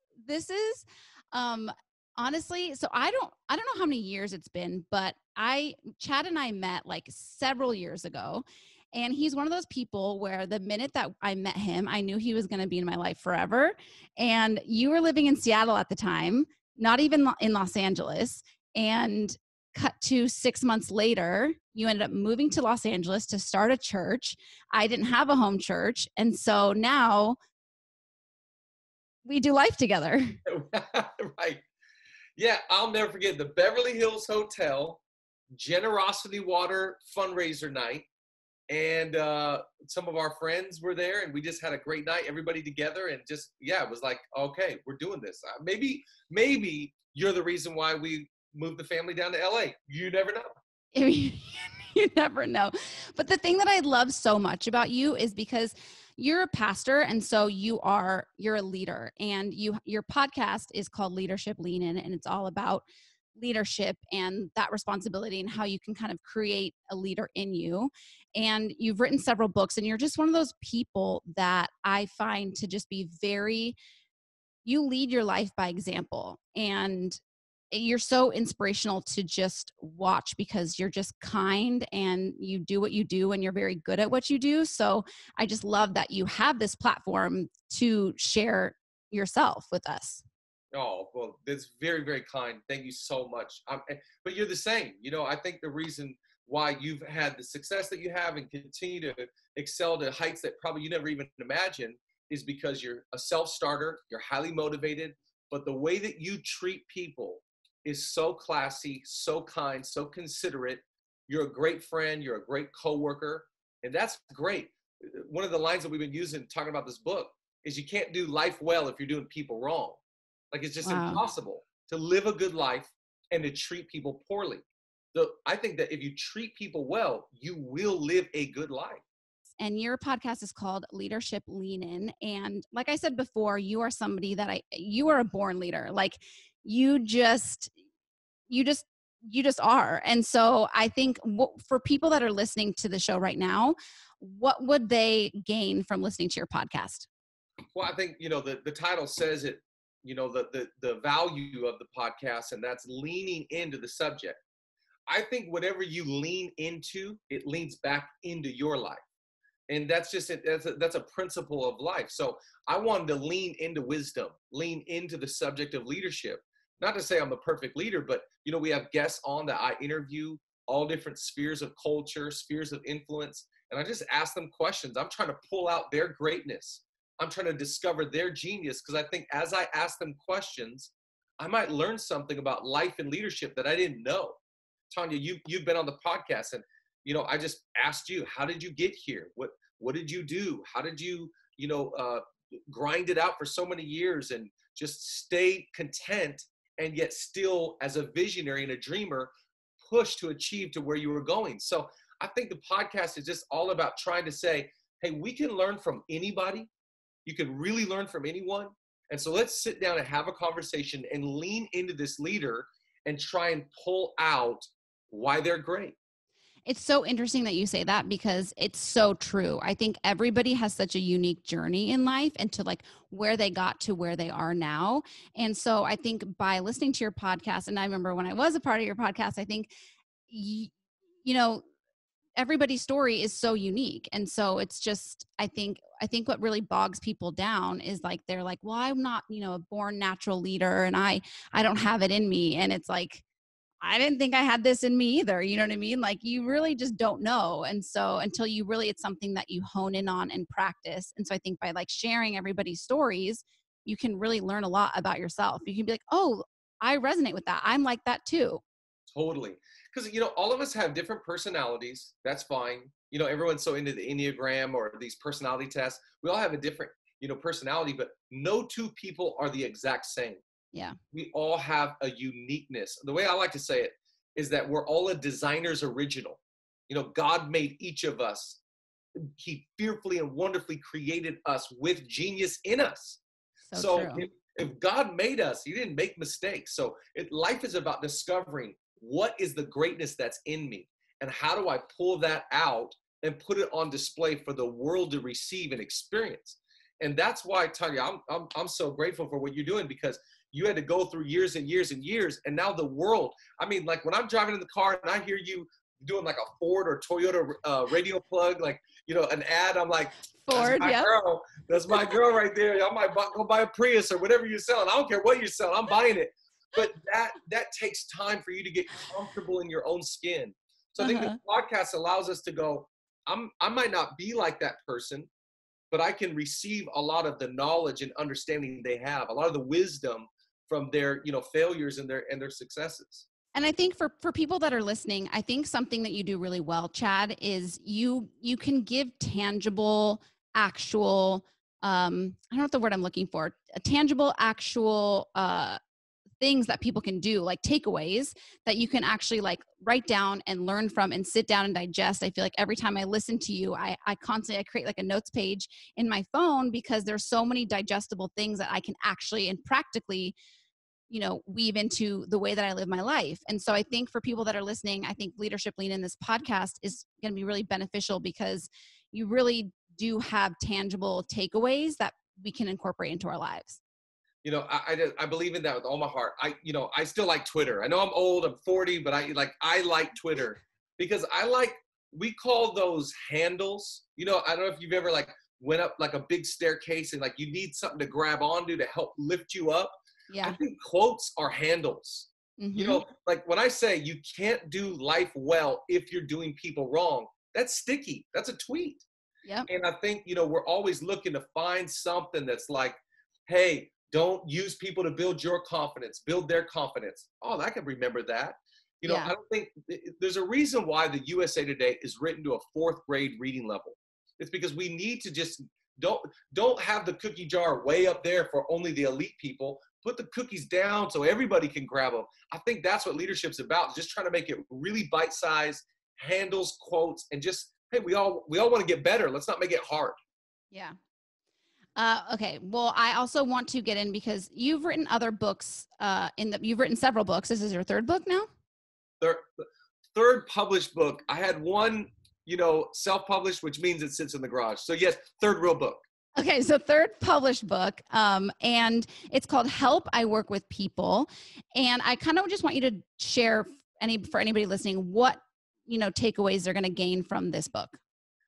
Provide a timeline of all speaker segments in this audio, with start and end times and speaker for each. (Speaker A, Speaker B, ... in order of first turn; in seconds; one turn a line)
Speaker A: 0.2-27.4
Speaker A: 29.2-30.4
Speaker B: 30.5-31.6
Speaker B: 32.4-35.0
Speaker B: 35.5-38.1
Speaker B: 38.7-50.5
Speaker A: 51.0-73.8
Speaker A: 74.7-77.2
Speaker A: 77.7-90.2
Speaker B: 90.7-120.0
Speaker B: 120.5-129.0
Speaker A: 120.8-121.2
Speaker A: 129.6-137.7
Speaker A: 138.5-147.1
Speaker B: 147.7-154.4
Speaker B: 155.1-159.0
Speaker B: 159.7-199.3
Speaker B: 199.8-206.7
Speaker B: 207.2-216.0
Speaker A: 216.7-229.7
Speaker A: 230.3-230.7
Speaker A: 231.2-231.6
Speaker A: 232.4-243.2
Speaker A: 243.8-258.6
Speaker B: 259.1-270.4
Speaker B: 271.1-278.6
Speaker B: 279.4-283.2
Speaker A: 283.7-284.3
Speaker B: 283.7-325.3
Speaker A: 310.4-311.1
Speaker A: 321.0-321.4
Speaker B: 325.9-333.3
Speaker A: 333.5-345.8
Speaker A: 346.4-360.4
Speaker A: 361.1-373.8
Speaker B: 374.4-399.1
Speaker A: 390.3-390.6
Speaker A: 392.6-393.0
Speaker B: 399.7-403.0
Speaker B: 403.5-430.2
Speaker A: 409.1-409.3
Speaker A: 430.7-431.0
Speaker A: 432.0-438.5
Speaker B: 439.2-446.0
Speaker A: 446.4-458.0